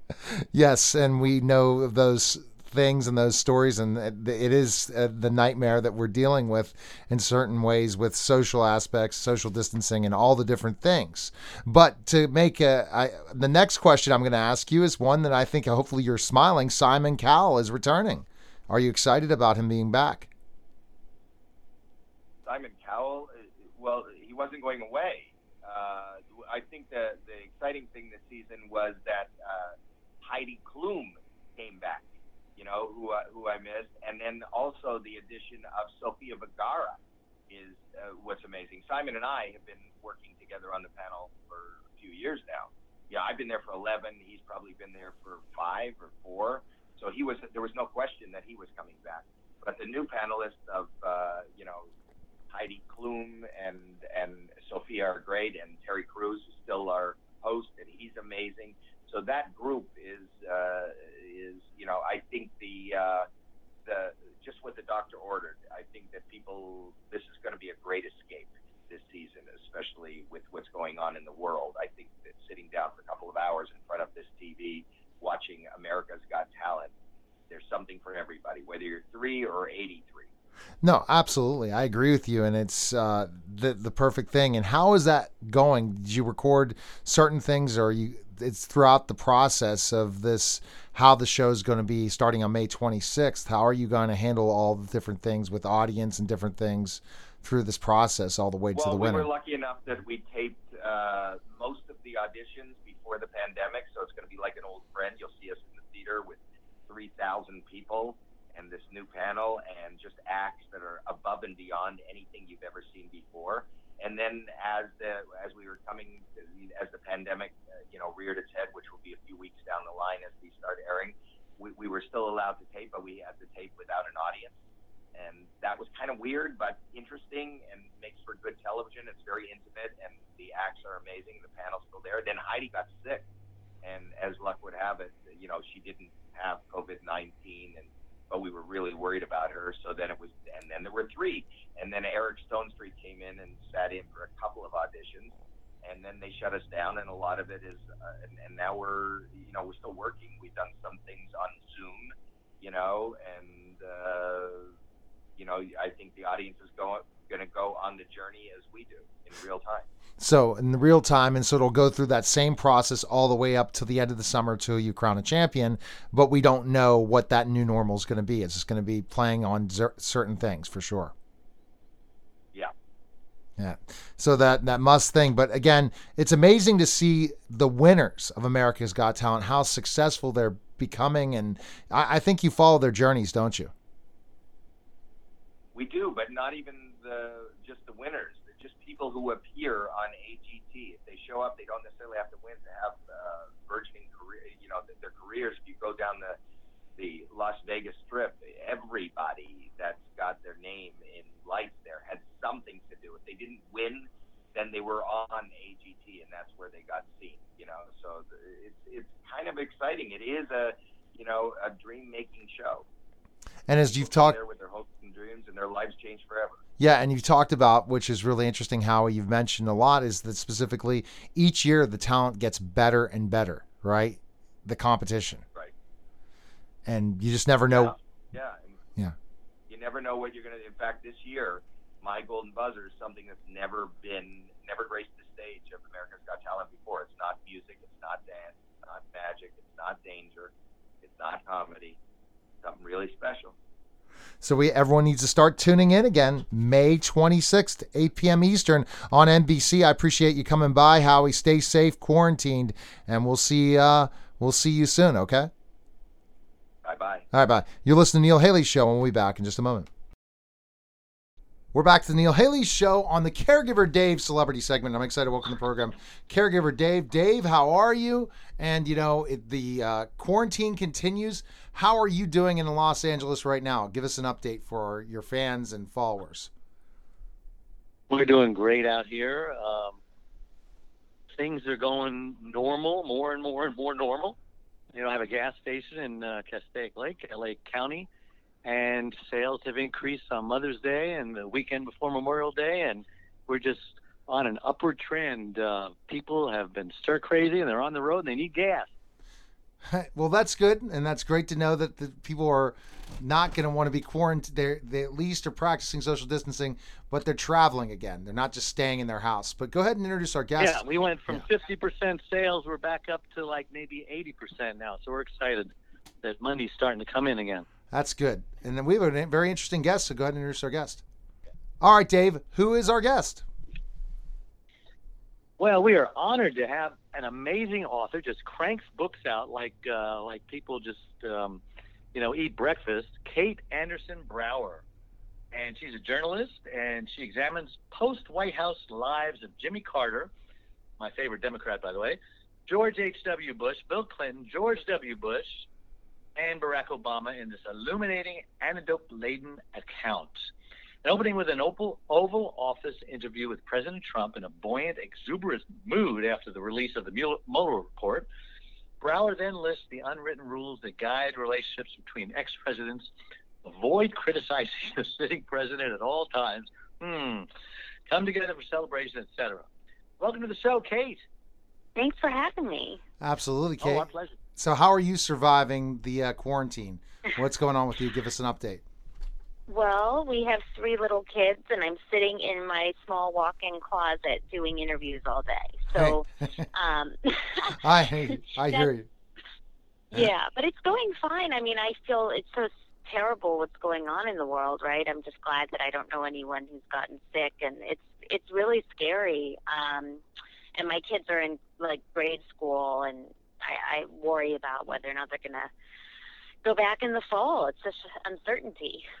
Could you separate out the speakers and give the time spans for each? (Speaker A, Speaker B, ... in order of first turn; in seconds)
Speaker A: 0.5-20.3, 80.8-99.3, 160.2-171.1, 173.6-183.7, 213.7-214.4, 216.8-225.4, 226.8-227.9, 244.4-255.5, 257.3-259.9, 261.7-276.5, 299.9-311.4, 317.9-321.0, 321.8-323.4, 373.2-378.8, 385.9-386.6, 387.8-389.1
Speaker B: 22.4-37.0, 37.5-51.9, 52.5-63.2, 63.9-76.9, 77.5-80.3, 98.7-124.5, 125.1-133.2, 133.8-145.3, 145.8-154.7, 155.4-159.8, 185.7-196.3, 197.0-212.8, 213.9-216.6, 227.7-228.8, 229.7-240.5, 241.0-242.0, 242.6-243.5, 256.8-257.2
Speaker C: 278.1-280.0, 281.3-284.4, 284.9-288.1, 288.6-298.9, 310.6-317.6, 325.6-331.6, 332.1-334.8, 335.5-340.3, 341.0-345.6, 346.3-350.5, 351.0-358.3, 359.0-363.1, 363.6-367.5, 368.1-369.7, 370.2-371.2, 373.8-374.4
Speaker D: 371.9-373.0, 379.7-387.8, 390.1-400.2, 400.8-405.7, 406.6-409.0